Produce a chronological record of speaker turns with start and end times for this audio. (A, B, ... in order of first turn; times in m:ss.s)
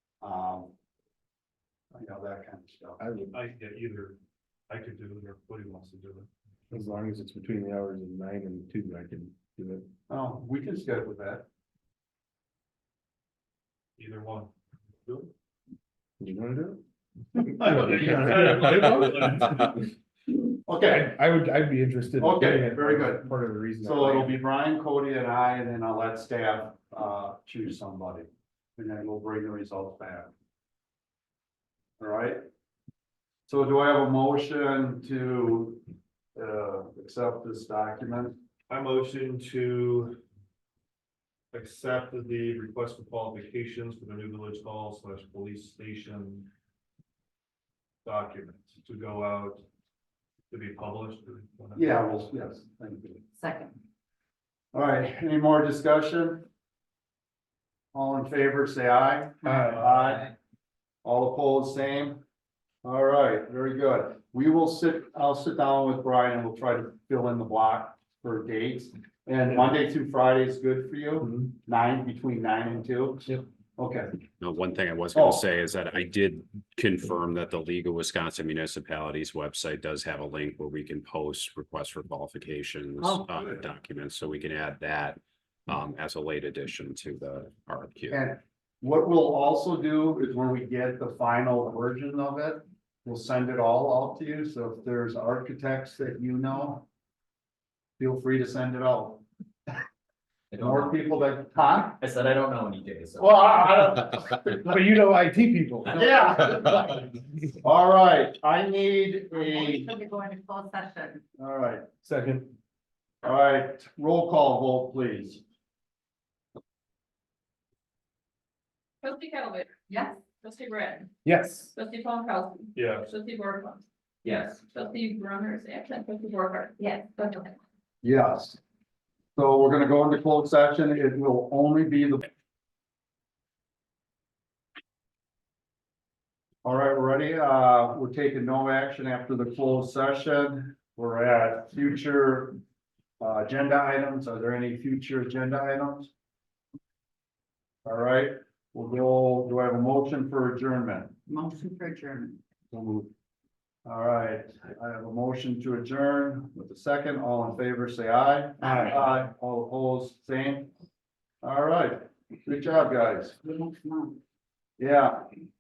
0:00.2-0:00.7 A
0:01.9-0:03.0 A
0:03.0-0:03.4 B
0:03.3-0:04.2 C
0:04.7-0:06.3 C
0:06.7-0:09.9 B
0:10.1-0:11.4 A
0:14.0-0:14.5 C
0:15.0-0:15.3 C
0:16.2-0:16.8 B
0:17.4-0:19.8 B
0:17.7-0:19.7 C
0:20.6-0:21.1 A
0:20.8-0:24.4 B
0:22.2-0:30.3 A
0:32.0-0:32.4 A
0:33.5-0:35.8 A
0:36.3-0:38.4 A
0:38.7-0:40.2 C
0:41.5-0:46.5 C
0:48.0-0:49.6 C
0:50.5-0:52.0 C
0:51.8-0:53.2 A
0:53.4-0:53.8 D
0:54.7-0:56.4 A
0:57.9-1:00.3 A
1:01.0-1:02.2 A
1:02.8-1:14.1 A
1:14.4-1:28.2 E
1:15.1-1:15.4 A
1:28.1-1:36.8 A
1:38.0-1:39.2 A
1:40.5-1:41.0 F
1:40.6-1:42.0 A
1:42.0-1:43.9 F
1:43.2-1:44.6 A
1:44.6-1:46.4 B
1:45.9-1:47.1 A
1:47.6-1:49.9 A
1:49.3-1:51.2 D
1:51.4-1:51.9 A
1:52.0-1:52.5 B
1:53.2-1:55.4 A
1:59.0-1:59.8 G
1:59.9-2:00.2 D
2:00.4-2:01.1 G
2:01.2-2:01.7 B
2:01.7-2:03.8 G
2:02.7-2:03.1 C
2:04.2-2:04.6 F
2:04.7-2:07.6 G
2:08.0-2:08.6 A
2:09.4-2:12.3 A
2:16.6-2:22.6 A
2:23.2-2:26.1 A
2:27.8-2:31.1 A
2:31.3-2:32.4 D
2:33.8-2:40.7 A
2:41.4-2:43.4 A
2:43.4-2:44.2 D
2:44.8-2:45.2 A